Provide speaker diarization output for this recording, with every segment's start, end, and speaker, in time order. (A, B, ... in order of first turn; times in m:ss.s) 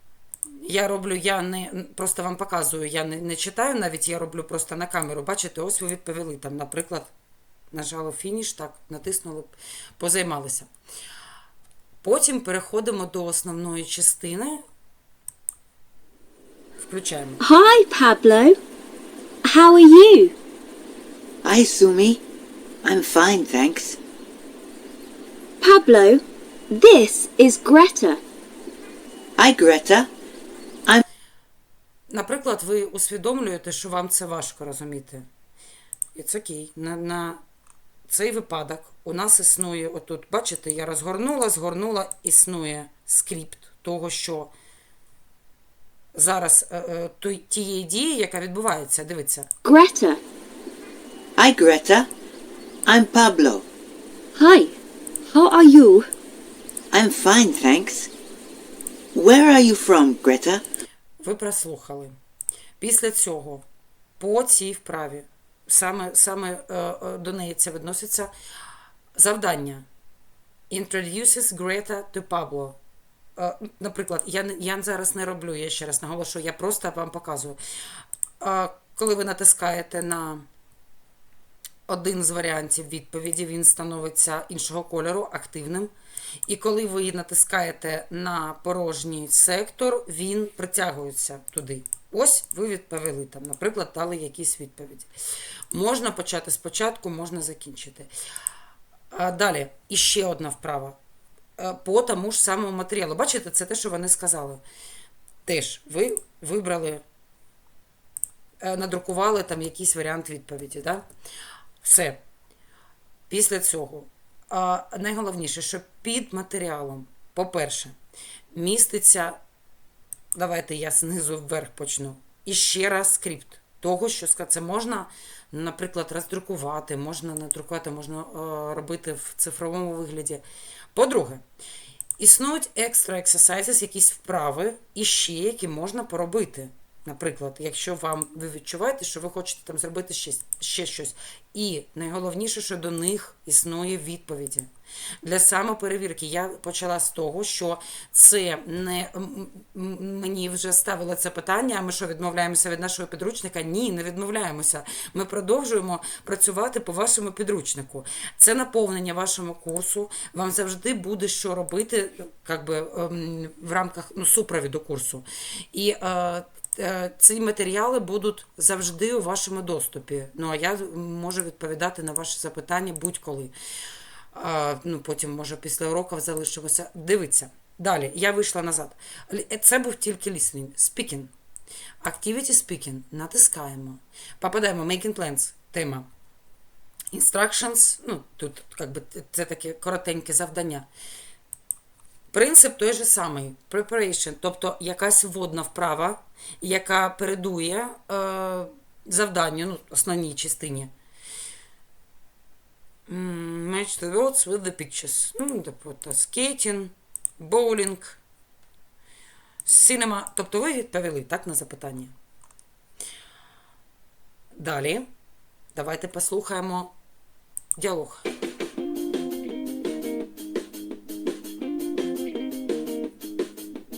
0:00.6-0:07.1 A
0:07.7-0:10.7 A
0:12.0-0:14.6 A
0:16.8-0:17.4 A
0:17.4-0:18.6 B
0:19.4-0:20.4 B
0:21.4-0:22.2 C
0:22.8-0:24.0 C
0:25.6-0:28.2 B
0:29.4-0:30.1 C
0:32.1-0:35.3 A
0:36.2-0:37.4 A
0:38.1-0:44.5 A
0:46.2-0:49.5 A
0:49.6-0:50.2 B
0:51.4-0:52.1 C
0:52.9-0:53.7 C
0:54.4-0:54.8 B
0:55.3-0:56.1 B
0:56.9-0:58.1 C
0:59.1-1:00.6 C
1:01.2-1:02.2 A
1:02.8-1:03.7 A
1:04.2-1:08.3 A
1:09.2-1:09.9 A
1:10.7-1:12.8 A
1:13.4-1:17.6 A
1:18.4-1:20.5 A
1:21.9-1:25.9 A
1:26.5-1:35.1 A
1:35.7-1:38.1 A
1:39.1-1:41.0 A
1:41.6-1:44.6 A
1:45.5-1:47.0 A
1:48.6-1:51.0 A
1:51.8-1:52.2 A
1:53.3-1:57.9 A
1:58.5-1:59.4 A
2:00.4-2:10.4 A
2:10.9-2:11.4 A
2:12.2-2:24.7 A
2:25.2-2:53.5 A
2:54.3-3:01.3 A
3:02.0-3:06.1 A
3:07.1-3:10.9 A
3:12.3-3:20.9 A
3:23.1-3:28.2 A
3:29.6-3:32.1 A
3:34.5-3:35.1 A
3:35.8-3:36.9 A
3:37.8-3:38.2 A